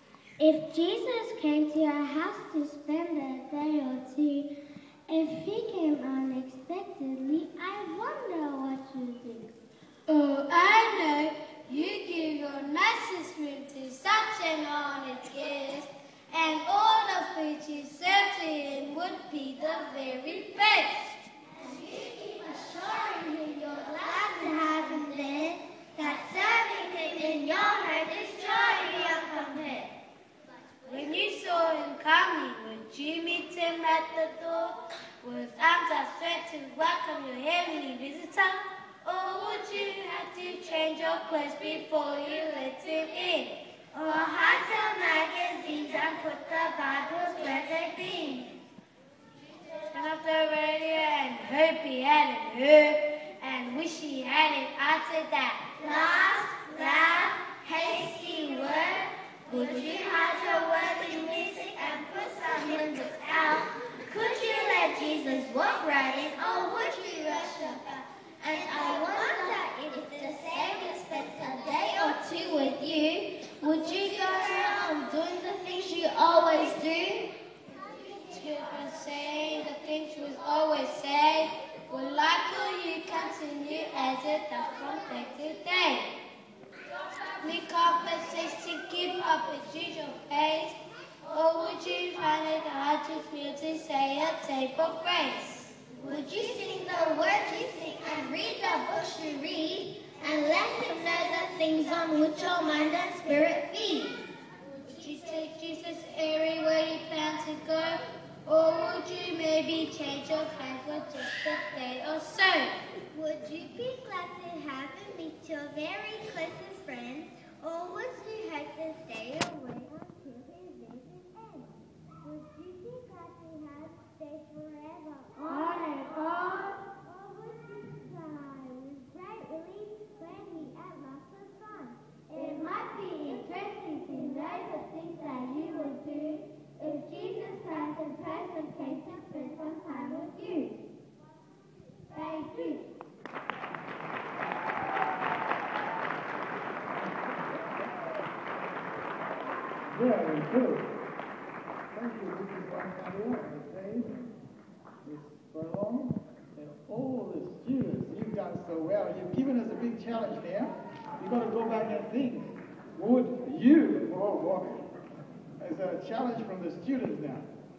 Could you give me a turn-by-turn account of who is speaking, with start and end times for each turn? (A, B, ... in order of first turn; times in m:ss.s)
0:00.4-0:04.5 A
0:05.1-0:09.5 A
0:10.1-0:21.3 B
0:21.6-0:29.9 A
0:30.9-0:43.6 B
0:43.9-0:48.5 A
0:49.8-0:55.7 B
0:55.8-1:17.3 A
1:18.2-1:26.1 B
1:27.4-1:30.7 B
1:31.3-1:35.7 B
1:36.0-1:44.2 A
1:44.8-1:52.7 B
1:53.1-2:05.9 A
2:05.5-2:06.8 B
2:06.8-2:20.8 A
2:22.1-2:22.8 A
2:29.9-2:30.9 C
2:31.9-2:34.3 C
2:35.0-2:44.9 C
2:45.6-2:47.5 C